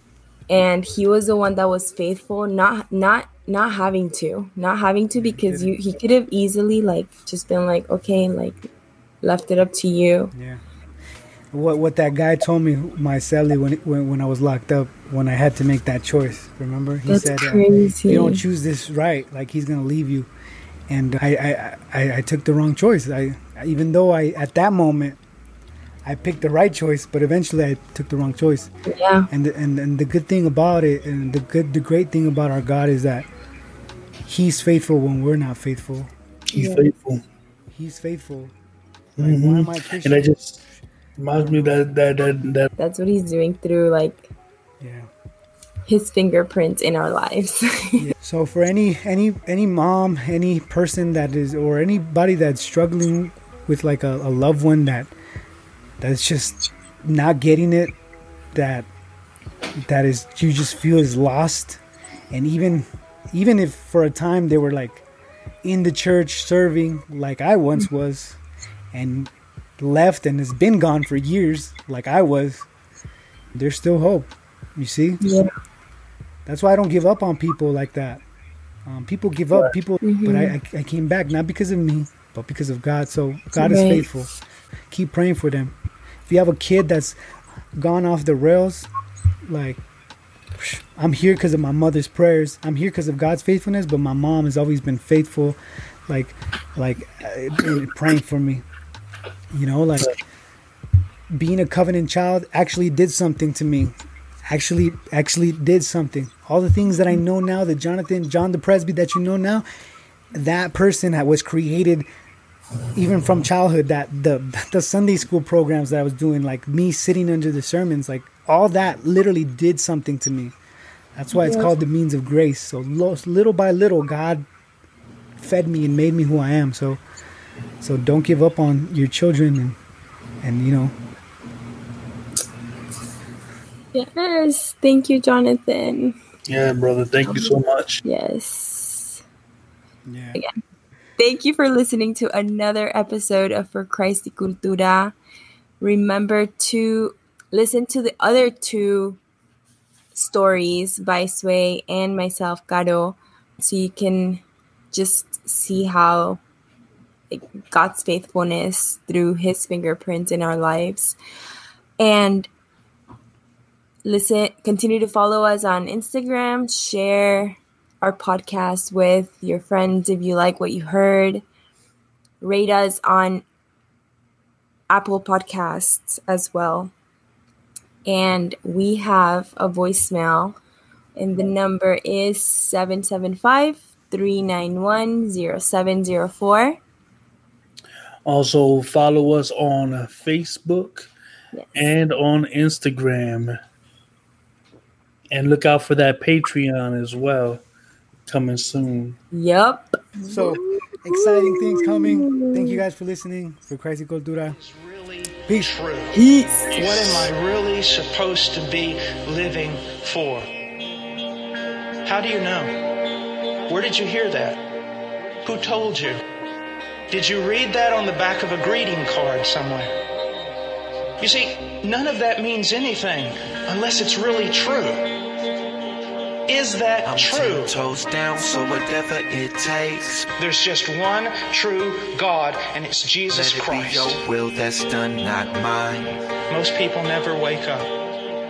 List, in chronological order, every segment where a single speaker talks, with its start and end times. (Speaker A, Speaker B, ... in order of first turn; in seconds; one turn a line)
Speaker A: 0.5-8.7
Speaker B: 5.1-5.7
Speaker A: 9.2-10.3
Speaker B: 10.3-10.6
Speaker B: 11.5-20.3
Speaker A: 17.1-18.4
Speaker B: 20.9-25.2
Speaker B: 26.1-28.7
Speaker A: 28.9-29.3
Speaker B: 29.3-33.3
Speaker B: 34.3-36.1
Speaker C: 36.5-37.2
Speaker A: 36.5-36.9
Speaker B: 37.7-38.5
Speaker B: 39.2-40.4
Speaker C: 39.2-40.6
Speaker C: 41.2-42.7
Speaker B: 41.4-41.8
Speaker A: 42.8-44.3
Speaker B: 44.8-45.1
Speaker A: 45.9-48.1
Speaker B: 48.0-55.1
Speaker B: 56.0-57.9
Speaker B: 58.5-58.9
Speaker B: 59.8-61.8
Speaker B: 62.3-65.0
Speaker B: 65.6-68.4
Speaker B: 68.9-72.7
Speaker B: 73.5-75.2
Speaker A: 75.2-75.5
Speaker B: 76.5-78.2
Speaker B: 78.9-84.3
Speaker A: 80.0-80.5
Speaker A: 83.6-84.1
Speaker B: 84.9-85.8
Speaker B: 86.3-87.2
Speaker B: 87.8-88.9
Speaker B: 89.5-89.8
Speaker B: 90.6-98.7
Speaker B: 99.5-100.1
Speaker B: 101.3-103.9
Speaker B: 104.5-109.6
Speaker B: 110.3-112.1
Speaker B: 113.0-120.5
Speaker B: 121.2-124.5
Speaker A: 121.3-121.8
Speaker B: 125.4-127.0
Speaker B: 127.8-129.8
Speaker B: 130.4-130.9
Speaker A: 133.9-136.2
Speaker C: 136.5-138.0
Speaker A: 137.2-139.2
Speaker B: 140.1-140.4
Speaker A: 141.2-145.2
Speaker A: 145.8-149.2
Speaker A: 150.1-156.4
Speaker A: 157.3-161.2
Speaker A: 162.0-162.5
Speaker A: 164.0-171.4
Speaker A: 172.4-173.4
Speaker A: 174.9-176.9
Speaker A: 178.1-180.6
Speaker A: 181.2-186.8
Speaker C: 188.2-191.1
Speaker A: 191.5-191.9
Speaker C: 191.7-193.6
Speaker C: 195.3-197.6
Speaker C: 198.3-199.2
Speaker A: 199.3-202.8
Speaker B: 200.3-204.6
Speaker D: 204.6-206.2
Speaker C: 206.7-207.3
Speaker D: 206.8-210.5
Speaker D: 212.1-212.7
Speaker D: 213.7-214.6
Speaker D: 215.4-216.2
Speaker D: 217.1-219.9
Speaker D: 221.2-225.1
Speaker D: 226.5-227.8
Speaker E: 227.1-230.3
Speaker D: 230.4-234.2
Speaker E: 233.3-236.2
Speaker D: 236.5-237.9